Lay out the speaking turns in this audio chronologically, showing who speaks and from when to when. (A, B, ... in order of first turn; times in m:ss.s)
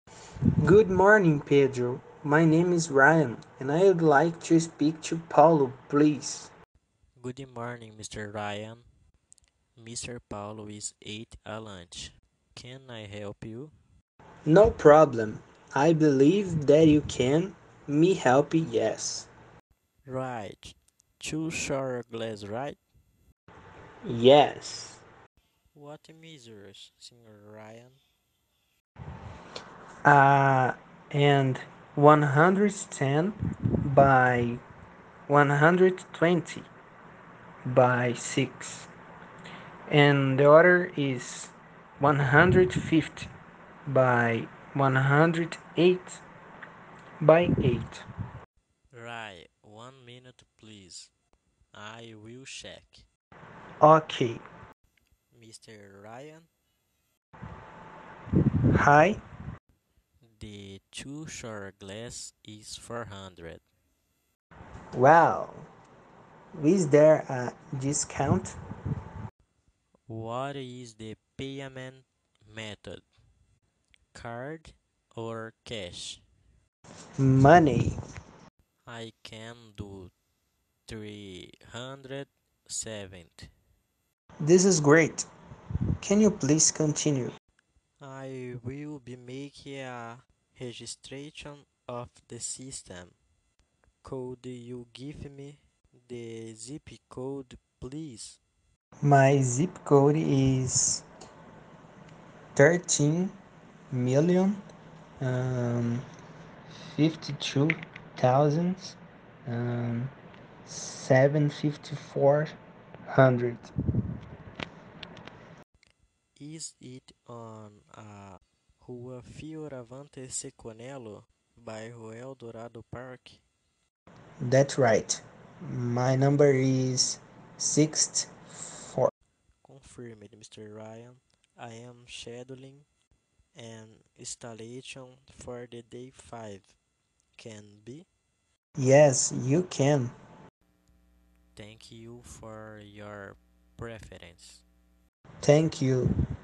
0:00.6-0:06.5 A
0:07.2-0:08.8 B
0:09.8-0:13.7 B
0:14.4-0:19.3 A
0:20.0-0:22.8 B
0:24.0-0:25.0 A
0:25.7-0:28.0 B
0:30.0-0:34.6 A
0:35.3-0:36.7 A
0:37.6-0:38.9 A
0:39.9-0:43.3 A
0:43.9-0:46.2 A
0:47.2-0:48.0 A
0:48.9-0:51.1 B
0:51.7-0:53.0 B
0:53.8-0:54.4 A
0:55.3-0:56.5 B
0:58.7-0:59.2 A
1:00.2-1:03.6 B
1:04.9-1:05.7 A
1:06.5-1:08.6 A
1:10.1-1:13.0 B
1:14.1-1:16.2 B
1:17.2-1:18.0 A
1:18.8-1:20.1 B
1:20.9-1:23.5 B
1:24.4-1:25.3 A
1:26.0-1:27.3 A
1:28.0-1:33.1 B
1:34.0-1:38.4 B
1:39.0-1:41.0 A
1:42.6-1:43.4 A
1:43.9-1:44.6 A
1:45.2-1:46.0 A
1:46.9-1:50.1 A
1:50.6-1:52.6 A
1:53.1-1:53.7 A
1:56.4-2:03.4 B
2:04.4-2:09.1 A
2:09.6-2:12.8 B
2:13.5-2:16.7 B
2:17.4-2:18.1 B
2:18.8-2:20.1 A
2:21.6-2:24.6 B
2:25.4-2:26.1 A